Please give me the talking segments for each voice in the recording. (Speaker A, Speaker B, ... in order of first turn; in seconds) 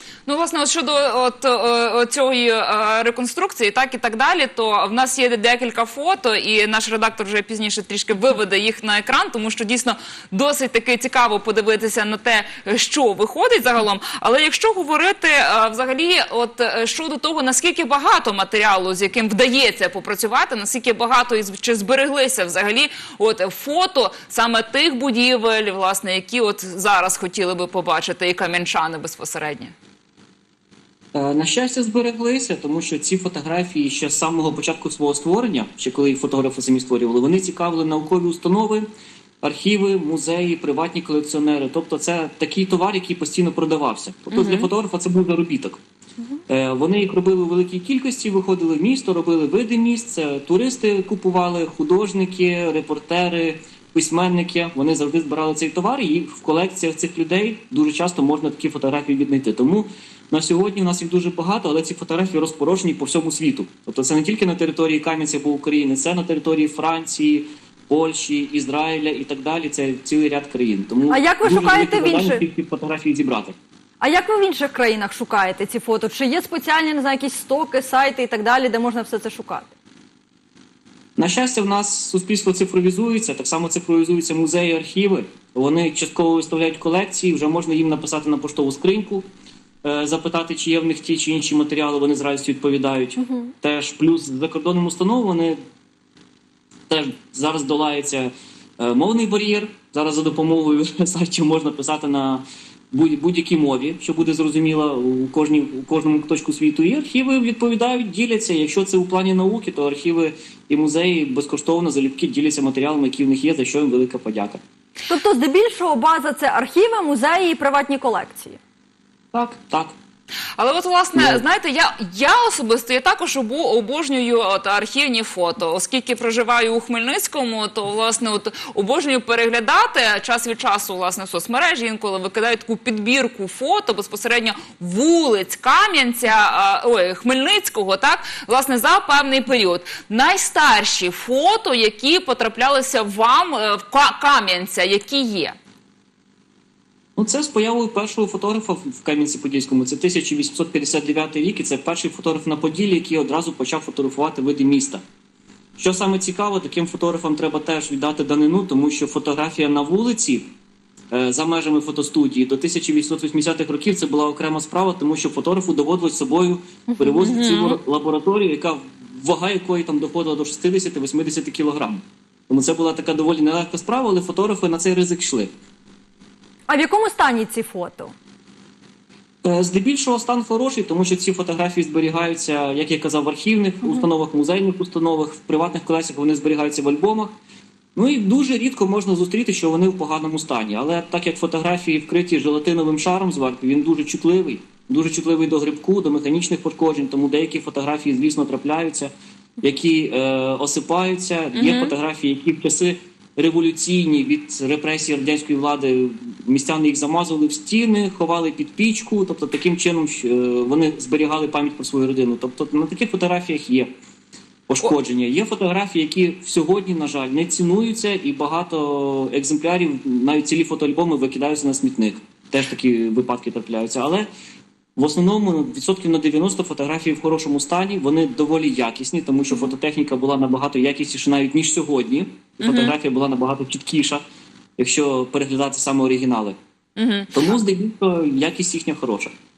Speaker A: 0.3-29.7, 44.3-44.7, 120.6-145.6, 167.2-167.8, 201.6-201.9, 232.6-232.9, 237.0-237.3
Speaker B: 31.1-38.9, 39.4-45.8, 46.5-73.6, 81.2-89.2, 89.8-95.6, 96.9-114.6, 119.3-120.0, 121.2-121.4, 147.2-155.0, 155.8-160.5, 161.1-175.5, 179.4-187.3, 187.9-213.9, 214.7-224.3, 225.0-234.2, 234.8-236.6, 237.3-239.3
Speaker C: 71.1-72.4, 74.0-79.7, 115.1-118.6, 166.9-167.2, 176.7-178.1